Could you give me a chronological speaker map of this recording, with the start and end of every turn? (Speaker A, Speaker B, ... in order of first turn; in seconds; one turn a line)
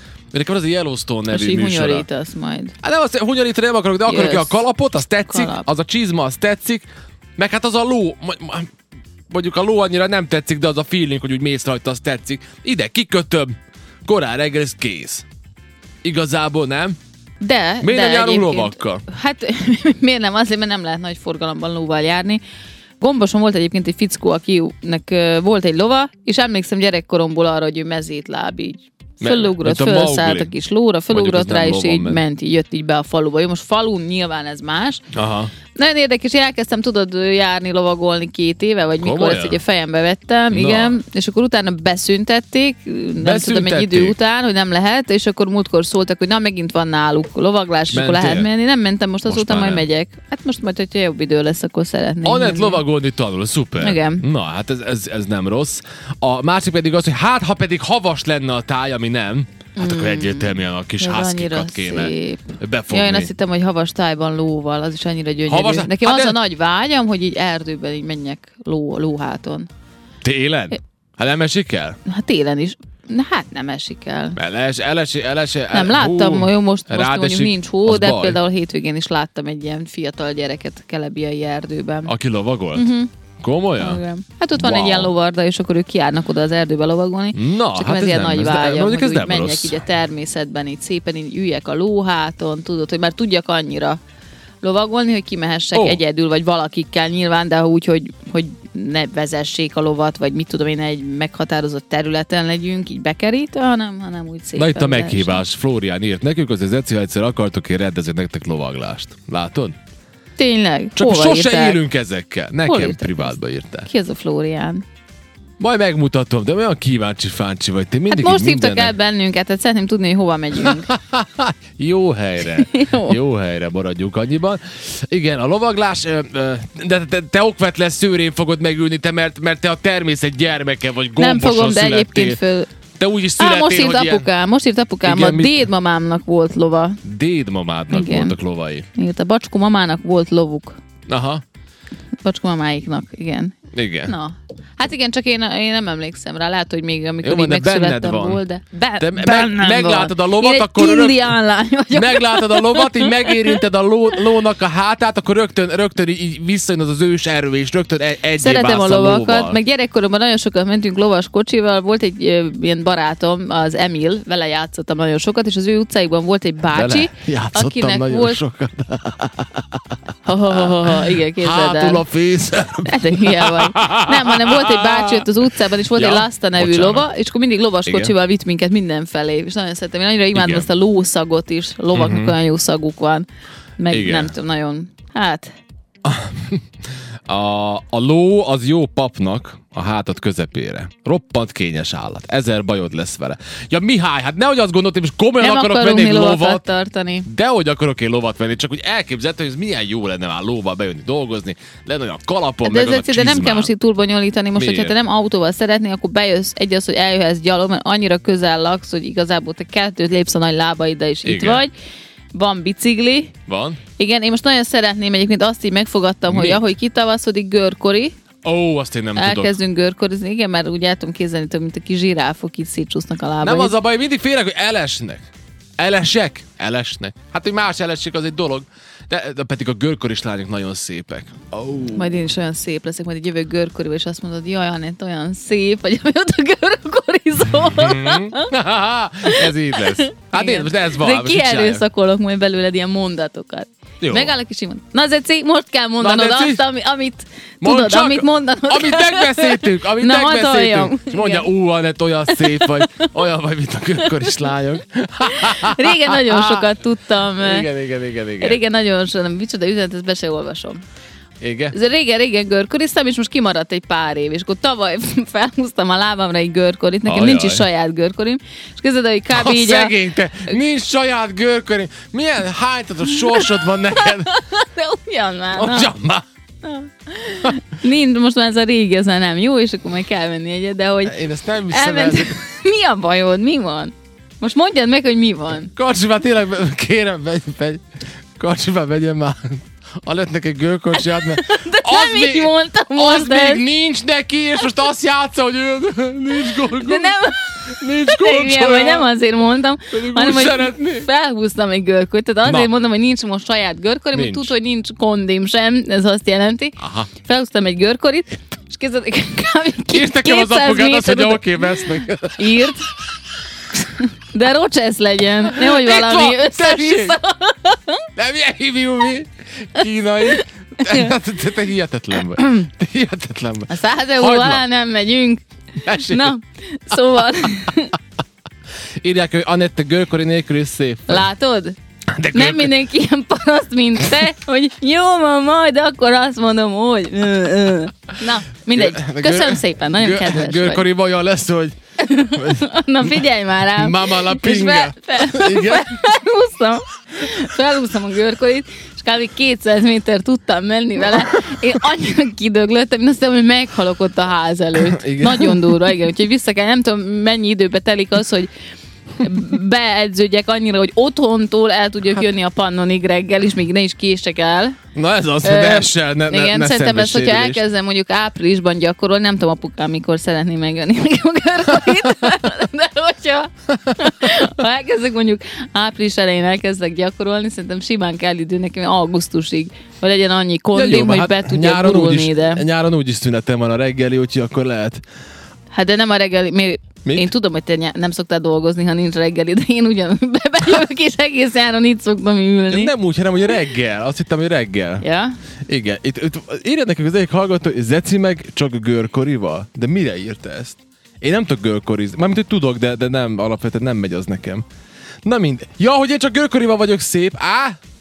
Speaker A: 0.3-2.0
Speaker B: 1.3-2.7
Speaker A: 2.8-6.8
Speaker B: 4.0-4.7
Speaker B: 5.3-5.7
Speaker A: 7.4-8.7
Speaker A: 9.3-13.5
Speaker A: 14.1-15.2
Speaker A: 16.0-17.0
Speaker B: 17.4-22.4
Speaker A: 17.8-19.0
Speaker B: 23.0-35.0
Speaker A: 29.2-30.5
Speaker A: 31.1-32.2
Speaker A: 35.1-35.5
Speaker B: 35.7-52.8
Speaker A: 39.0-39.6
Speaker A: 40.5-41.0
Speaker A: 43.2-44.1
Speaker A: 47.9-48.5
Speaker A: 49.2-49.8
Speaker A: 52.2-63.3
Speaker B: 53.8-54.2
Speaker B: 59.8-69.7
Speaker A: 65.5-66.4
Speaker A: 70.2-72.0
Speaker B: 72.0-74.4
Speaker A: 74.3-78.4
Speaker B: 75.7-82.1
Speaker A: 82.0-82.9
Speaker B: 82.7-83.1
Speaker A: 83.4-84.0
Speaker B: 83.8-94.0
Speaker A: 84.6-85.1
Speaker A: 87.3-89.8
Speaker B: 94.6-105.4
Speaker A: 95.7-96.0
Speaker A: 104.5-109.8
Speaker B: 110.4-111.8
Speaker A: 111.0-113.9
Speaker B: 112.6-114.8
Speaker A: 115.6-118.9
Speaker B: 118.1-120.9
Speaker A: 120.6-132.4
Speaker B: 122.5-123.2
Speaker B: 131.2-132.7
Speaker A: 133.0-134.3
Speaker B: 133.4-137.0
Speaker A: 135.0-135.7
Speaker A: 137.0-138.9
Speaker B: 137.9-138.3
Speaker B: 138.9-140.7
Speaker A: 141.1-141.4
Speaker B: 142.2-153.6
Speaker A: 143.7-144.1
Speaker A: 147.2-148.4
Speaker A: 149.0-151.3
Speaker A: 151.9-159.6
Speaker B: 158.3-168.4
Speaker A: 166.7-169.9
Speaker B: 170.2-172.1
Speaker A: 170.5-175.2
Speaker B: 172.8-183.3
Speaker A: 175.9-177.1
Speaker A: 177.8-178.1
Speaker A: 180.3-180.7
Speaker A: 181.9-182.3
Speaker B: 183.8-185.5
Speaker A: 183.9-184.3
Speaker A: 186.0-186.6
Speaker A: 187.3-196.6
Speaker B: 195.4-197.2
Speaker A: 197.2-203.7
Speaker B: 202.6-211.7
Speaker A: 204.6-204.9
Speaker A: 211.2-211.6
Speaker B: 212.3-213.3
Speaker A: 213.5-213.8
Speaker B: 214.0-218.1
Speaker A: 216.3-216.6
Speaker A: 218.4-219.5
Speaker B: 219.2-223.7
Speaker A: 223.4-225.3
Speaker A: 225.8-232.2
Speaker B: 231.9-238.5
Speaker A: 237.6-241.8
Speaker B: 239.2-251.5
Speaker A: 244.0-244.3
Speaker A: 246.0-246.6
Speaker A: 247.6-256.7
Speaker B: 252.3-253.1
Speaker B: 254.0-254.3
Speaker B: 255.2-257.7
Speaker A: 257.4-258.6
Speaker B: 258.4-260.8
Speaker A: 261.4-261.7
Speaker B: 261.7-270.0
Speaker A: 267.1-267.6
Speaker A: 269.3-274.3
Speaker B: 273.0-275.9
Speaker A: 275.5-276.2
Speaker B: 276.6-281.2
Speaker A: 281.1-282.3
Speaker B: 281.7-285.7
Speaker A: 285.7-287.8
Speaker A: 288.4-299.1
Speaker B: 290.9-293.6
Speaker B: 296.4-312.9
Speaker A: 299.9-301.1
Speaker A: 304.1-304.5
Speaker A: 306.8-307.1
Speaker A: 309.9-312.7
Speaker B: 313.7-318.1
Speaker A: 315.5-317.2
Speaker A: 318.1-324.6
Speaker B: 320.2-321.2
Speaker B: 322.3-322.6
Speaker B: 323.7-328.0
Speaker A: 325.8-326.3
Speaker A: 329.0-331.2
Speaker B: 331.1-331.8
Speaker A: 332.1-332.8
Speaker B: 332.3-340.9
Speaker A: 338.7-341.7
Speaker B: 342.0-358.5
Speaker A: 342.3-342.6
Speaker A: 343.8-345.9
Speaker A: 354.8-355.6
Speaker B: 359.2-364.8
Speaker A: 364.9-367.6
Speaker B: 365.4-382.6
Speaker A: 380.7-385.0
Speaker B: 385.7-392.9
Speaker A: 392.7-395.0
Speaker B: 395.0-395.4
Speaker A: 395.7-404.6
Speaker A: 405.2-407.8